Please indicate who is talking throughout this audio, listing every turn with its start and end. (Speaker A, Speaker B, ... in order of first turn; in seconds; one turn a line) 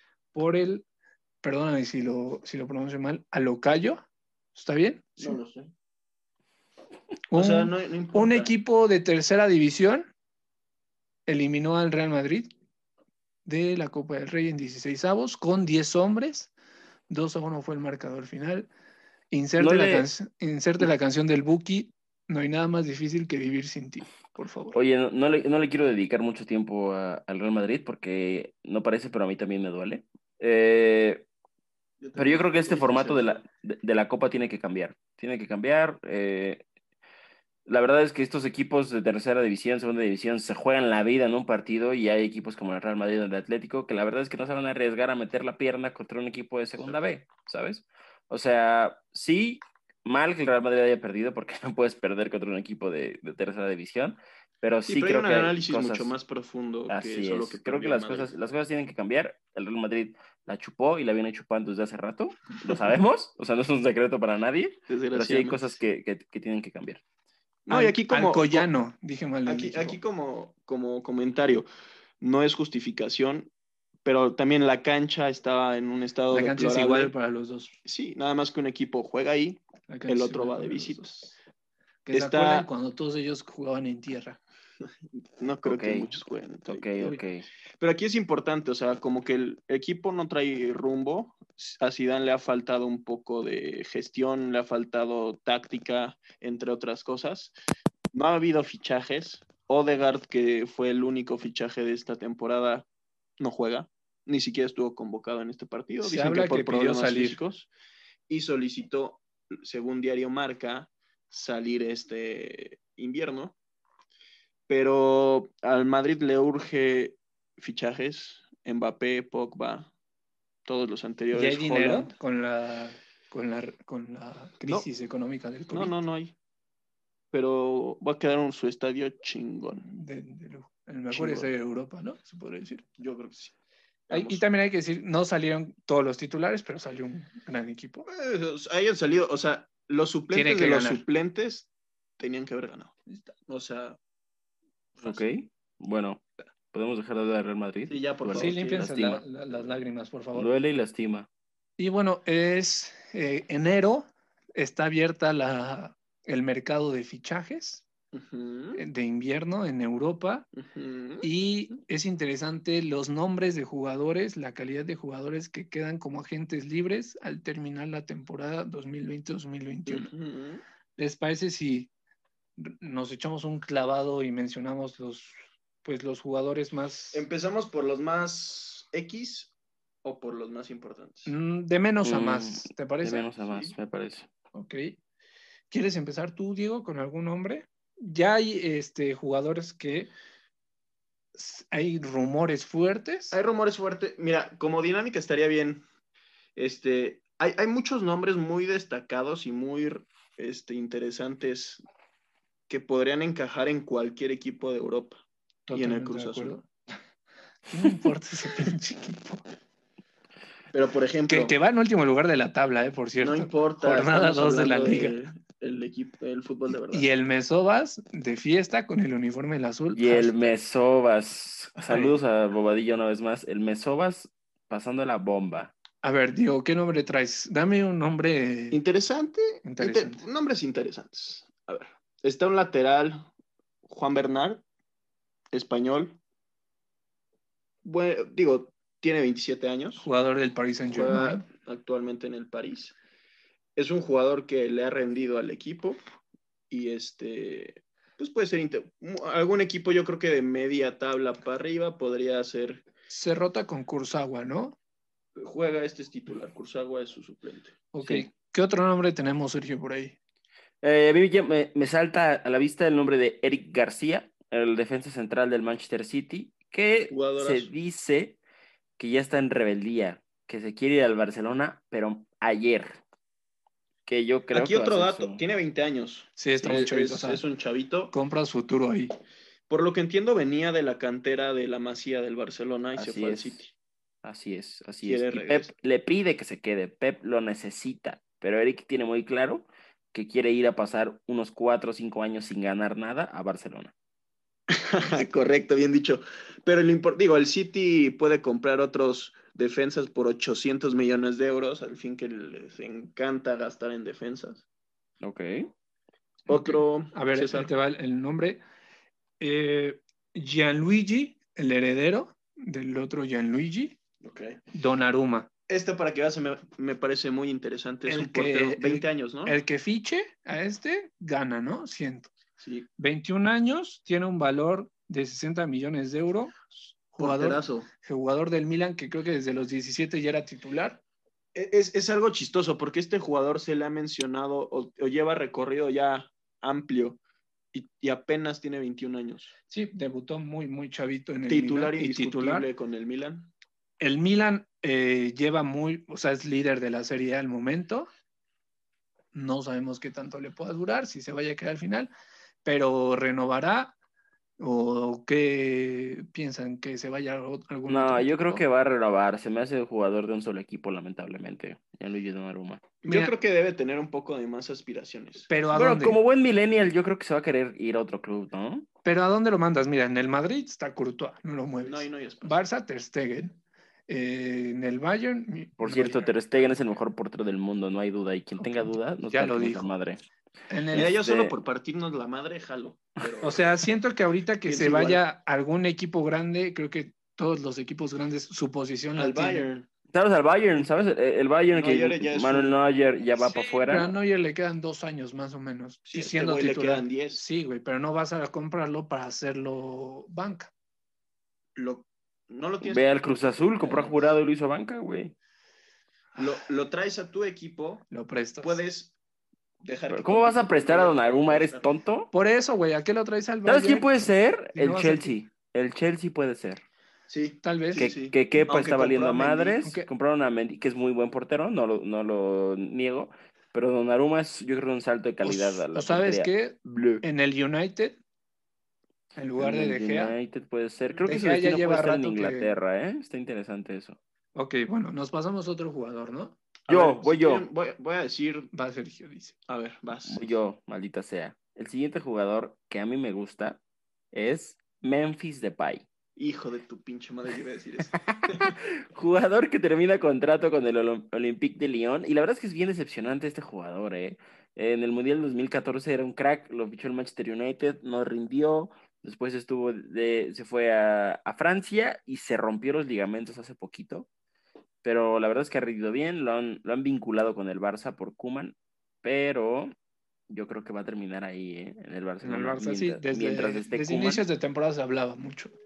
Speaker A: 0.3-0.8
Speaker A: 1.4-5.4
Speaker B: 5.2-5.7
Speaker A: 7.3-10.1
Speaker B: 7.3-8.5
Speaker A: 11.3-12.5
Speaker A: 13.5-16.5
Speaker A: 17.1-18.7
Speaker A: 19.3-24.8
Speaker C: 19.6-20.1
Speaker C: 24.7-31.3
Speaker B: 32.0-33.4
Speaker C: 32.2-36.6
Speaker C: 37.7-56.1
Speaker B: 54.9-58.3
Speaker C: 56.9-67.0
Speaker B: 64.9-65.7
Speaker B: 67.7-68.7
Speaker A: 67.7-70.0
Speaker B: 69.5-71.7
Speaker B: 72.2-73.5
Speaker B: 74.0-77.1
Speaker A: 76.3-77.8
Speaker B: 77.8-81.2
Speaker A: 79.9-81.3
Speaker A: 82.1-84.4
Speaker B: 82.1-82.7
Speaker B: 85.2-87.2
Speaker C: 85.7-86.1
Speaker C: 86.7-87.5
Speaker B: 87.8-97.5
Speaker B: 98.1-102.9
Speaker B: 103.4-107.7
Speaker A: 106.0-107.4
Speaker B: 108.3-113.6
Speaker B: 114.7-119.9
Speaker B: 120.7-122.1
Speaker A: 121.3-126.0
Speaker B: 125.7-126.3
Speaker B: 127.3-129.9
Speaker A: 129.8-132.8
Speaker B: 131.1-131.5
Speaker B: 133.0-133.5
Speaker B: 134.1-134.4
Speaker A: 134.1-138.1
Speaker B: 138.1-142.9
Speaker A: 140.3-141.0
Speaker B: 143.5-144.0
Speaker B: 145.0-145.3
Speaker C: 145.0-149.2
Speaker B: 147.9-148.9
Speaker A: 148.3-150.5
Speaker C: 150.3-151.3
Speaker A: 151.8-157.8
Speaker B: 158.1-158.8
Speaker A: 158.8-160.5
Speaker B: 160.6-161.3
Speaker A: 161.2-170.1
Speaker B: 169.9-170.6
Speaker A: 171.0-171.9
Speaker A: 172.6-177.3
Speaker B: 177.1-179.5
Speaker B: 180.0-181.3
Speaker A: 181.3-183.3
Speaker C: 182.0-184.3
Speaker B: 183.5-183.7
Speaker A: 184.5-184.9
Speaker A: 185.7-190.1
Speaker A: 191.3-193.4
Speaker B: 193.3-195.8
Speaker B: 196.6-201.8
Speaker B: 202.7-205.2
Speaker A: 205.7-206.7
Speaker B: 205.7-206.6
Speaker A: 207.7-209.4
Speaker B: 210.7-211.6
Speaker A: 211.3-215.2
Speaker B: 213.2-217.1
Speaker A: 216.9-220.5
Speaker C: 219.9-225.7
Speaker A: 221.8-222.2
Speaker A: 226.0-228.8
Speaker B: 228.7-233.3
Speaker A: 229.6-230.2
Speaker B: 233.9-234.6
Speaker B: 235.5-236.2
Speaker B: 237.8-240.1
Speaker A: 240.0-241.4
Speaker B: 240.9-243.0
Speaker B: 243.8-246.0
Speaker B: 246.7-252.9
Speaker A: 253.1-254.8
Speaker B: 255.4-257.8
Speaker A: 257.9-260.2
Speaker C: 260.8-268.4
Speaker B: 267.1-267.7
Speaker C: 269.0-273.0
Speaker C: 274.1-275.4
Speaker B: 274.5-278.1
Speaker A: 276.4-277.4
Speaker A: 278.1-279.1
Speaker B: 279.7-283.7
Speaker C: 283.0-283.6
Speaker C: 284.2-293.9
Speaker B: 285.0-285.7
Speaker B: 294.7-304.6
Speaker C: 305.2-305.7
Speaker B: 306.5-307.7
Speaker A: 306.5-308.6
Speaker A: 309.4-314.0
Speaker B: 314.2-314.6
Speaker A: 314.7-315.5
Speaker B: 315.7-319.6
Speaker A: 318.1-322.3
Speaker B: 322.6-322.9
Speaker A: 323.0-331.0
Speaker B: 327.2-327.9
Speaker B: 331.6-337.2
Speaker B: 337.7-339.5
Speaker A: 339.7-342.7
Speaker B: 341.5-343.5
Speaker A: 344.0-348.1
Speaker A: 349.3-352.1
Speaker A: 352.6-353.9
Speaker A: 354.6-358.6
Speaker C: 357.9-362.9
Speaker B: 363.0-365.5
Speaker A: 363.1-363.3
Speaker A: 365.5-366.2
Speaker C: 365.7-368.9
Speaker A: 369.1-373.6
Speaker B: 371.8-372.6
Speaker A: 374.1-376.3
Speaker C: 375.8-380.2
Speaker A: 378.6-379.9
Speaker A: 380.7-381.1
Speaker C: 380.9-381.6
Speaker B: 380.9-383.6
Speaker A: 383.4-389.7
Speaker B: 384.6-385.2
Speaker B: 389.2-389.9
Speaker C: 390.1-394.1
Speaker B: 391.7-392.8
Speaker A: 393.4-400.7
Speaker B: 396.1-397.4
Speaker B: 401.8-403.1
Speaker C: 402.8-405.3
Speaker B: 403.8-404.2
Speaker B: 406.4-408.1
Speaker A: 408.1-408.8
Speaker B: 408.6-409.1
Speaker B: 409.8-411.9
Speaker C: 410.1-412.3
Speaker A: 412.3-414.1
Speaker C: 413.6-416.8
Speaker A: 414.8-415.4
Speaker B: 417.3-419.8
Speaker A: 417.6-418.1
Speaker C: 418.0-427.2
Speaker A: 419.8-420.1
Speaker A: 425.4-428.2
Speaker A: 429.4-430.4
Speaker C: 429.6-434.2
Speaker A: 431.2-432.7
Speaker A: 434.6-436.6
Speaker B: 436.9-438.7
Speaker C: 436.9-437.7
Speaker A: 438.7-439.6
Speaker B: 439.7-440.5
Speaker C: 440.3-443.8
Speaker C: 444.3-446.1
Speaker B: 446.4-448.7
Speaker C: 448.3-464.3
Speaker C: 465.0-469.9
Speaker C: 470.5-474.4
Speaker A: 472.4-475.7